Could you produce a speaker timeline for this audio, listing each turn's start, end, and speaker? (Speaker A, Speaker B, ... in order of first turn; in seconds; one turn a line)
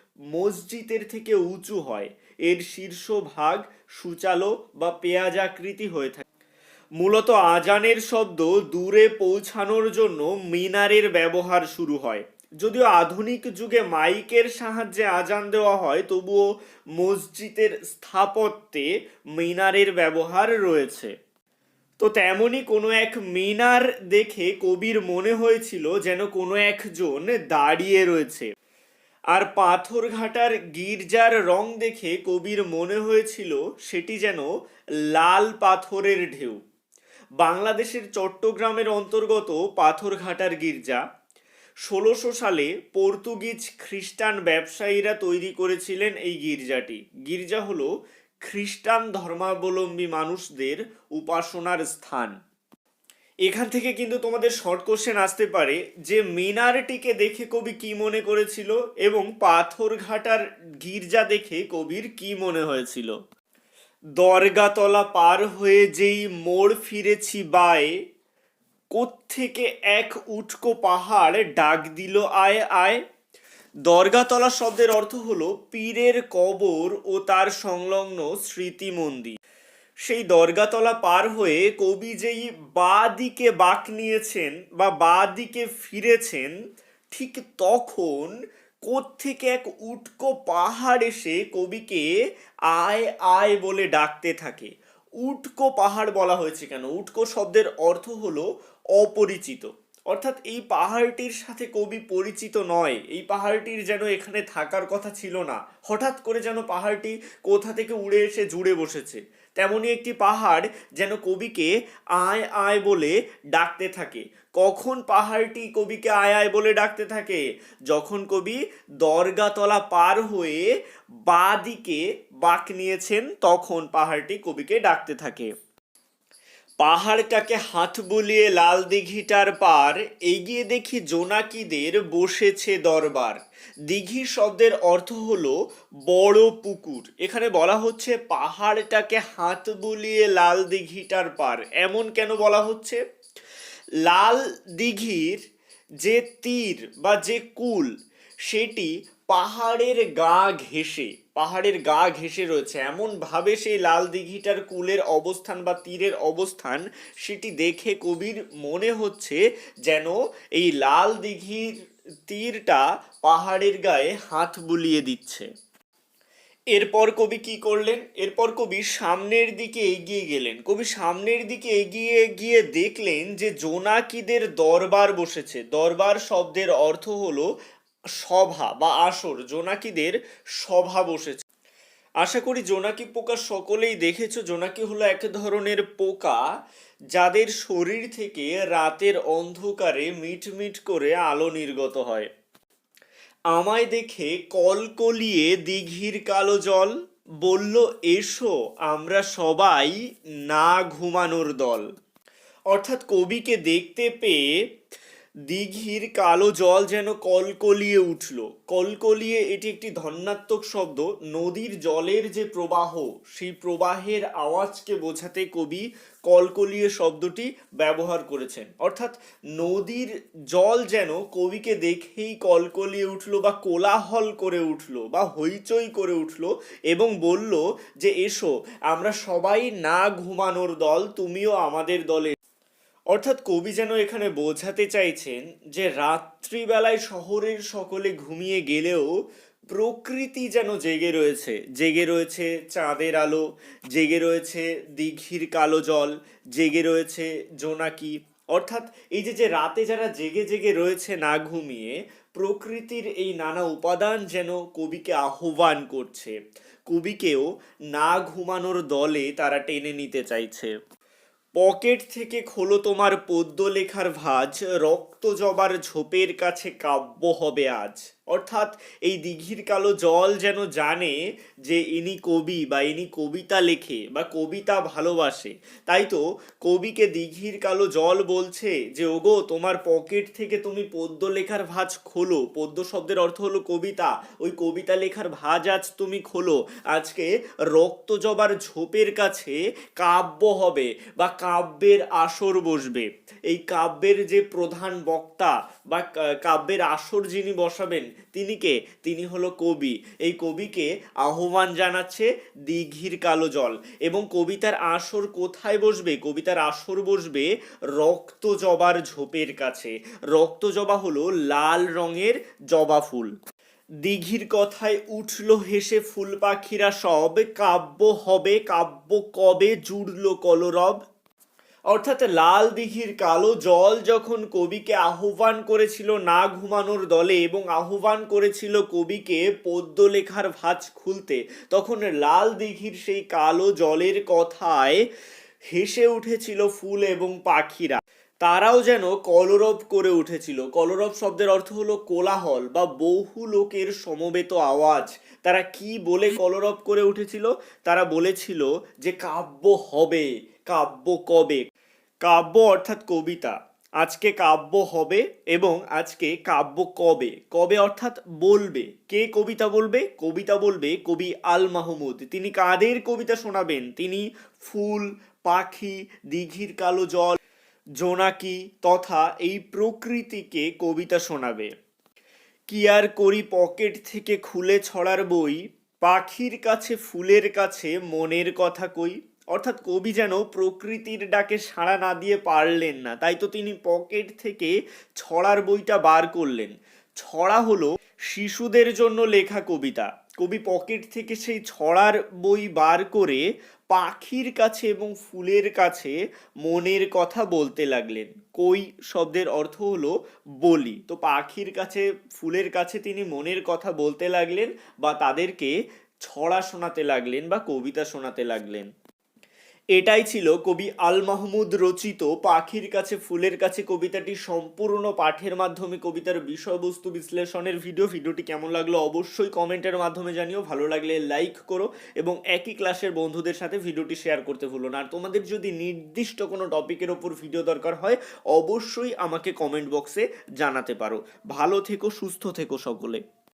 Speaker A: 0.3-6.2
Speaker A: 7.0-16.4
Speaker A: 17.0-21.1
Speaker A: 22.0-28.5
Speaker A: 29.3-34.5
Speaker A: 35.1-36.6
Speaker A: 37.4-41.0
Speaker A: 41.9-47.9
Speaker A: 48.4-52.3
Speaker A: 53.5-63.1
Speaker A: 64.2-67.9
Speaker A: 68.9-73.0
Speaker A: 73.8-79.3
Speaker A: 80.0-86.5
Speaker A: 87.1-88.3
Speaker A: 88.8-92.1
Speaker A: 92.7-94.7
Speaker A: 95.2-120.6
Speaker A: 121.2-125.5
Speaker A: 126.8-133.4
Speaker A: 133.9-135.5
Speaker A: 136.1-143.0
Speaker A: 144.1-145.4
Speaker A: 146.0-147.9
Speaker A: 148.5-161.7
Speaker A: 162.3-165.4
Speaker A: 166.7-177.4
Speaker A: 178.2-181.4
Speaker A: 182.2-186.4
Speaker A: 187.1-192.3
Speaker A: 193.5-201.8
Speaker A: 202.7-204.4
Speaker A: 205.5-232.3
Speaker A: 233.1-239.1
Speaker A: 239.7-256.3
Speaker A: 256.9-260.7
Speaker A: 261.6-313.3
Speaker A: 314.0-321.0
Speaker A: 321.9-335.0
Speaker A: 335.7-351.6
Speaker A: 352.2-367.4
Speaker A: 368.0-371.7
Speaker A: 372.7-405.7
Speaker A: 406.2-408.9
Speaker A: 409.9-433.2